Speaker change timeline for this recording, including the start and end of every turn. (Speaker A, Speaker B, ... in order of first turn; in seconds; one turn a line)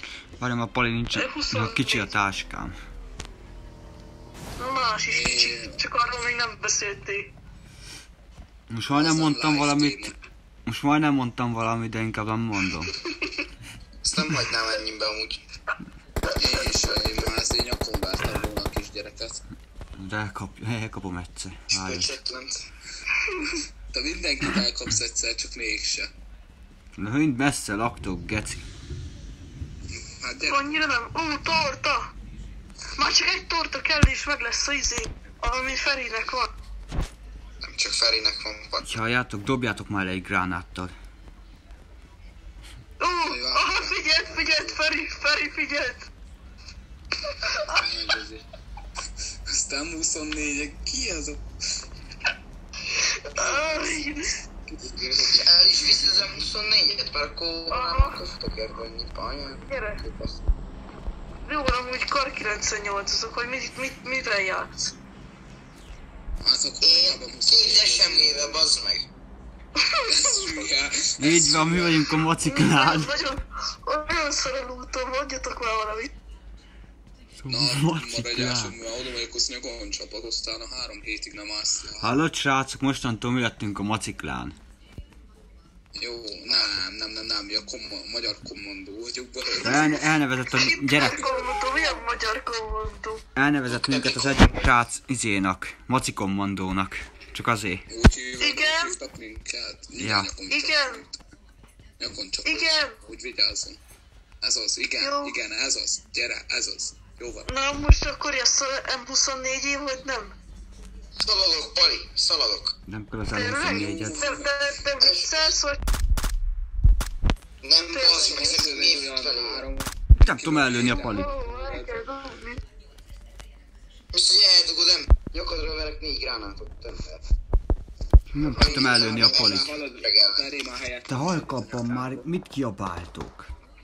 Speaker A: 0.4-2.8
Speaker B: 1.1-2.1
Speaker B: 4.6-7.3
Speaker C: 5.1-5.8
Speaker A: 8.7-10.1
Speaker C: 8.9-10.2
Speaker A: 10.7-12.9
Speaker D: 14.0-15.4
Speaker C: 16.3-19.4
Speaker D: 16.8-17.3
Speaker A: 20.0-22.1
Speaker D: 21.7-22.6
Speaker B: 23.2-23.5
Speaker C: 23.9-26.1
Speaker A: 27.0-28.6
Speaker C: 29.9-30.7
Speaker B: 30.4-32.1
Speaker B: 33.0-36.5
Speaker D: 37.6-39.0
Speaker A: 38.8-40.9
Speaker B: 43.0-46.1
Speaker C: 43.2-44.8
Speaker B: 47.4-47.7
Speaker C: 47.7-48.5
Speaker C: 49.5-51.4
Speaker D: 53.3-54.0
Speaker B: 53.3-54.3
Speaker C: 54.7-56.2
Speaker D: 54.9-60.4
Speaker B: 57.7-58.2
Speaker B: 59.5-60.0
Speaker B: 61.4-64.7
Speaker C: 66.4-68.7
Speaker D: 66.8-69.1
Speaker B: 69.8-70.4
Speaker C: 70.1-72.2
Speaker A: 71.2-73.1
Speaker B: 72.4-76.1
Speaker A: 77.4-78.8
Speaker C: 77.5-82.1
Speaker A: 82.0-84.5
Speaker C: 86.0-89.9
Speaker D: 86.5-86.8
Speaker A: 89.6-91.3
Speaker B: 89.7-90.0
Speaker B: 90.5-93.2
Speaker A: 93.3-97.8
Speaker D: 93.7-94.7
Speaker C: 97.9-101.2
Speaker B: 98.4-99.0
Speaker A: 100.0-100.3
Speaker B: 100.5-101.0
Speaker C: 102.0-103.8
Speaker B: 102.4-103.0
Speaker C: 104.4-107.5
Speaker B: 105.0-105.4
Speaker B: 107.5-110.3
Speaker D: 111.2-112.7
Speaker A: 112.9-114.3
Speaker B: 113.3-115.8
Speaker C: 113.4-114.5
Speaker D: 115.0-115.5
Speaker D: 117.6-119.7
Speaker B: 117.9-118.5
Speaker C: 118.1-122.0
Speaker A: 120.2-121.3
Speaker B: 121.0-122.6
Speaker D: 124.1-127.2
Speaker A: 128.3-129.7
Speaker D: 128.4-130.4
Speaker C: 128.5-132.3
Speaker A: 131.1-133.5